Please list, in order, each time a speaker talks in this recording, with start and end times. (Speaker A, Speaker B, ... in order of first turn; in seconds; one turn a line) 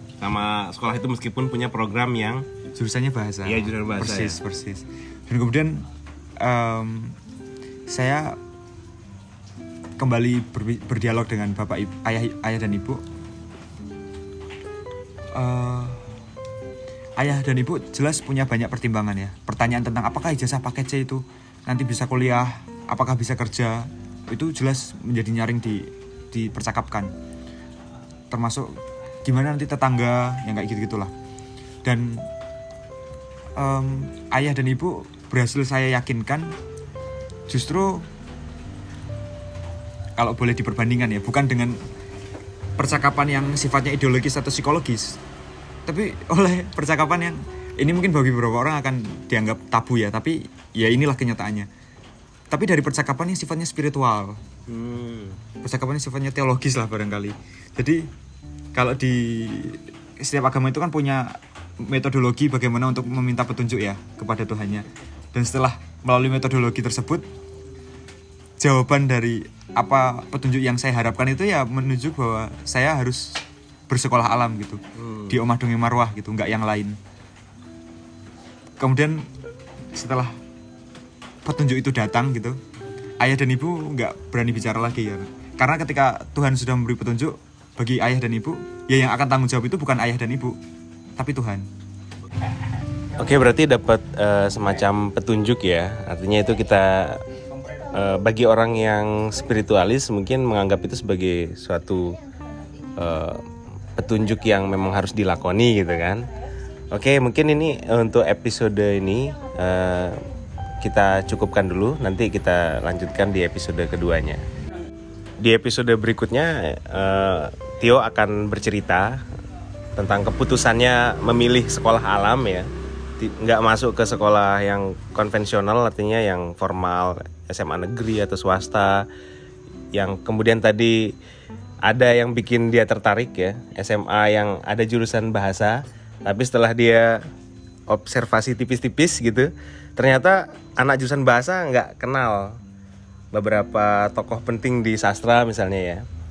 Speaker A: 0.2-2.5
Speaker B: 2.8-5.9
Speaker A: 3.5-4.4
Speaker B: 6.4-7.2
Speaker B: 7.9-8.4
Speaker B: 10.0-13.0
Speaker B: 15.3-16.1
Speaker B: 17.2-27.1
Speaker B: 28.3-31.1
Speaker B: 31.8-32.3
Speaker B: 33.6-36.6
Speaker B: 37.5-38.1
Speaker B: 40.2-41.8
Speaker B: 42.8-45.2
Speaker B: 45.9-51.7
Speaker B: 52.5-54.4
Speaker A: 54.7-55.4
Speaker B: 55.6-58.1
Speaker B: 58.7-67.3
Speaker B: 68.6-77.0
Speaker A: 75.0-75.4
Speaker B: 78.8-79.3
Speaker B: 79.9-80.4
Speaker B: 81.5-82.6
Speaker B: 83.2-90.6
Speaker B: 91.2-91.7
Speaker A: 93.2-97.2
Speaker A: 97.9-102.2
Speaker A: 103.0-103.4
Speaker A: 104.0-106.3
Speaker A: 106.9-110.2
Speaker A: 110.8-114.4
Speaker A: 115.4-119.2
Speaker A: 120.0-122.7
Speaker A: 123.2-129.1
Speaker A: 129.9-131.1
Speaker A: 131.8-137.2
Speaker A: 137.9-142.6
Speaker A: 143.3-146.0